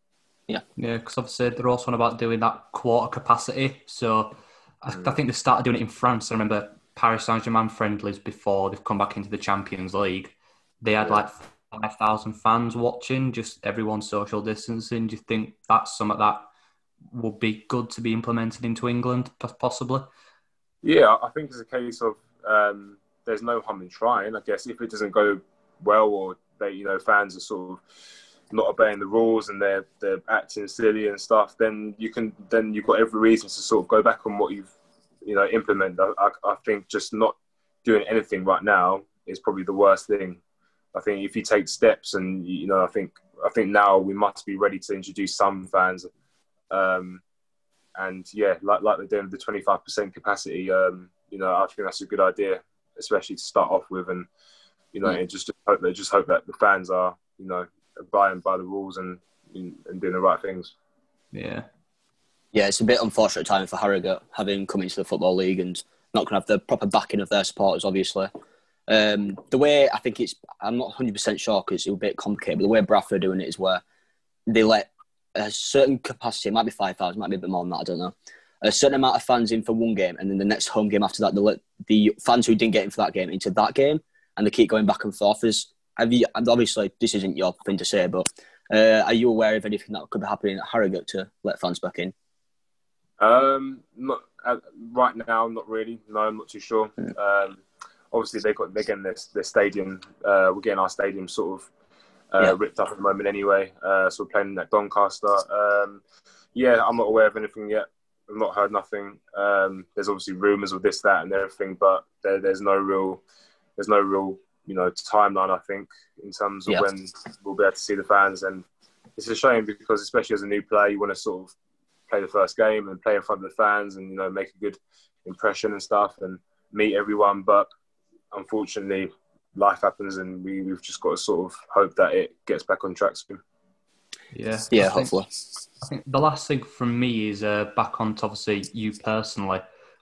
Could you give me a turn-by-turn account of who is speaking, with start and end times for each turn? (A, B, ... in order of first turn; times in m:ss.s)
0:00.8-0:16.5 A
0:04.9-0:05.2 B
0:17.1-0:20.1 A
0:20.8-0:27.8 B
0:28.5-0:34.7 B
0:35.2-0:40.4 B
0:40.9-0:46.1 B
0:46.7-0:47.2 B
0:48.0-0:54.3 B
0:54.9-1:00.7 B
1:01.3-1:01.6 A
1:02.5-1:08.3 C
1:08.9-1:13.8 C
1:14.5-1:32.1 C
1:33.2-1:41.7 B
1:42.3-1:46.0 B
1:46.5-1:53.2 B
1:53.8-1:58.6 B
1:59.2-2:01.5 B
2:02.1-2:07.7 B
2:08.3-2:13.4 B
2:14.3-2:15.1 A
2:14.7-2:15.3 C
2:15.8-2:19.6 A